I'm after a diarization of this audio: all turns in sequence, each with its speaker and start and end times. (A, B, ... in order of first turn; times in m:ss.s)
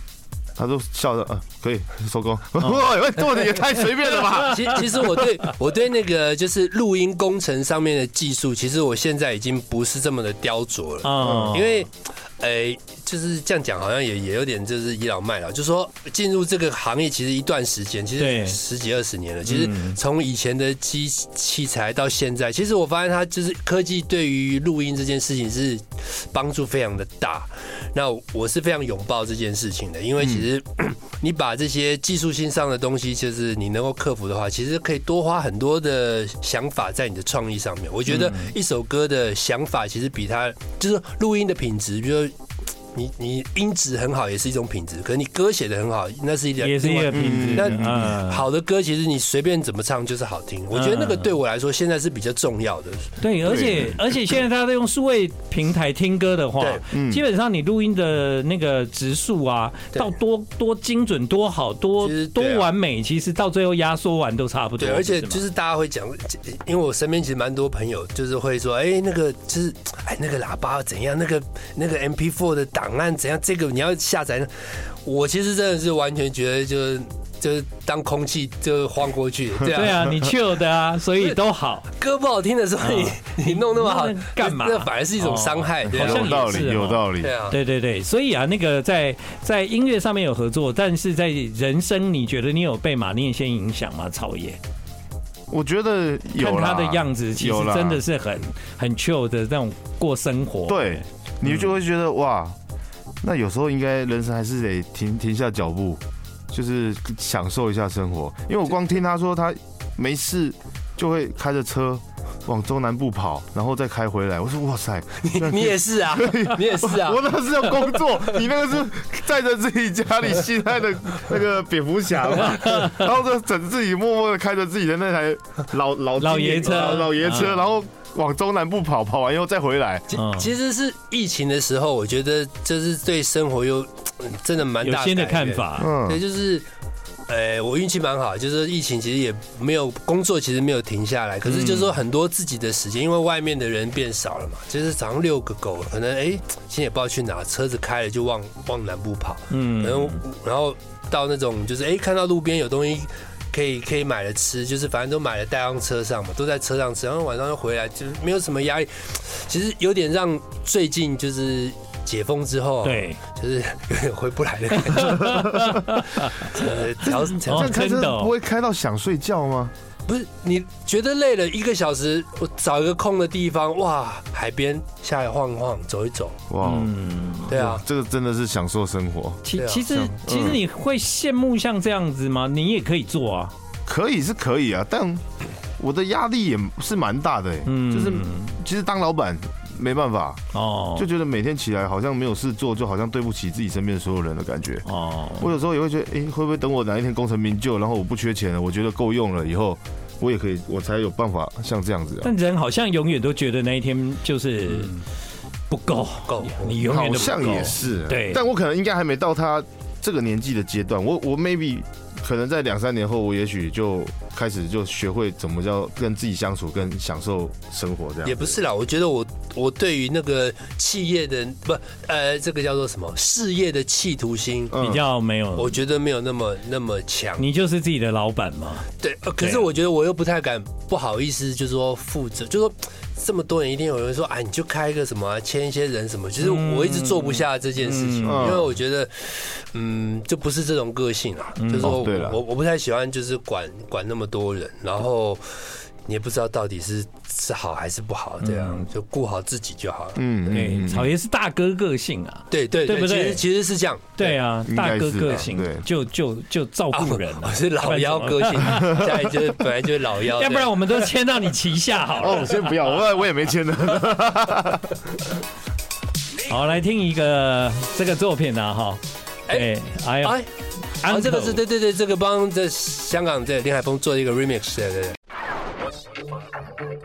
0:00.6-0:05.3 A
0:04.2-0:04.8 B
0:04.2-0:42.3 C
0:11.0-0:11.8 B
0:11.2-0:11.6 A
0:18.2-0:18.6 B
0:19.5-0:20.0 B
0:30.2-0:30.4 A
0:38.1-0:38.5 B
0:42.9-0:53.2 C
0:46.6-0:48.4 B
0:47.1-0:48.1 A
0:50.7-0:51.3 B
0:53.2-1:05.4 B
0:53.4-0:54.0 A
0:56.9-0:57.2 A
1:02.0-1:02.7 C
1:04.8-1:20.2 C
1:19.7-1:21.9 B
1:21.9-1:27.6 C
1:22.8-1:34.6 B
1:25.9-1:27.3 A
1:35.5-1:38.0 A
1:36.4-1:41.7 B
1:40.7-1:42.6 A
1:43.2-2:10.1 A
1:55.2-1:58.3 C
2:02.4-2:03.0 B
2:06.2-2:07.6 B
2:06.7-2:07.5 C
2:10.1-2:16.7 C
2:10.1-2:10.5 B
2:14.8-2:15.9 B
2:15.8-2:16.2 A
2:17.3-2:45.5 C
2:21.4-2:21.9 B
2:29.5-2:30.2 B
2:42.8-2:43.2 B
2:44.8-2:48.3 B
2:45.5-2:45.8 A
2:46.2-2:47.8 C
2:47.0-2:49.7 A
2:50.1-2:56.4 C
2:56.5-2:56.9 A
2:56.6-2:57.5 B
2:57.5-3:00.6 A
2:57.5-2:57.8 C
2:59.4-3:03.5 B
2:59.6-2:59.9 C
3:03.9-3:05.2 A
3:05.8-3:10.4 A
3:07.6-3:08.6 B
3:10.5-3:11.1 B
3:11.0-3:14.9 A
3:14.9-3:15.5 B
3:15.4-3:22.3 A
3:22.2-3:25.0 B
3:24.8-3:25.0 C
3:25.7-3:28.4 B
3:26.3-3:27.4 C
3:26.8-3:38.6 A
3:38.2-3:44.8 C
3:44.7-3:45.0 A
3:44.7-3:45.8 B
3:45.6-3:47.5 C
3:47.4-3:48.9 B
3:49.0-4:10.3 C
3:49.4-3:49.7 B
3:56.4-3:58.5 B
3:58.2-3:58.7 A
4:01.6-4:02.2 B
4:01.8-4:02.4 A
4:08.4-4:08.9 B
4:10.2-4:11.1 A
4:10.5-4:13.4 B
4:12.5-4:14.4 C
4:14.2-4:19.1 B
4:14.6-4:15.8 A
4:16.9-4:21.1 C
4:18.7-4:19.1 A
4:20.3-4:23.0 B
4:22.2-4:24.9 A
4:26.5-4:30.4 B
4:30.2-4:30.5 C
4:31.0-4:31.6 B
4:31.0-4:35.2 C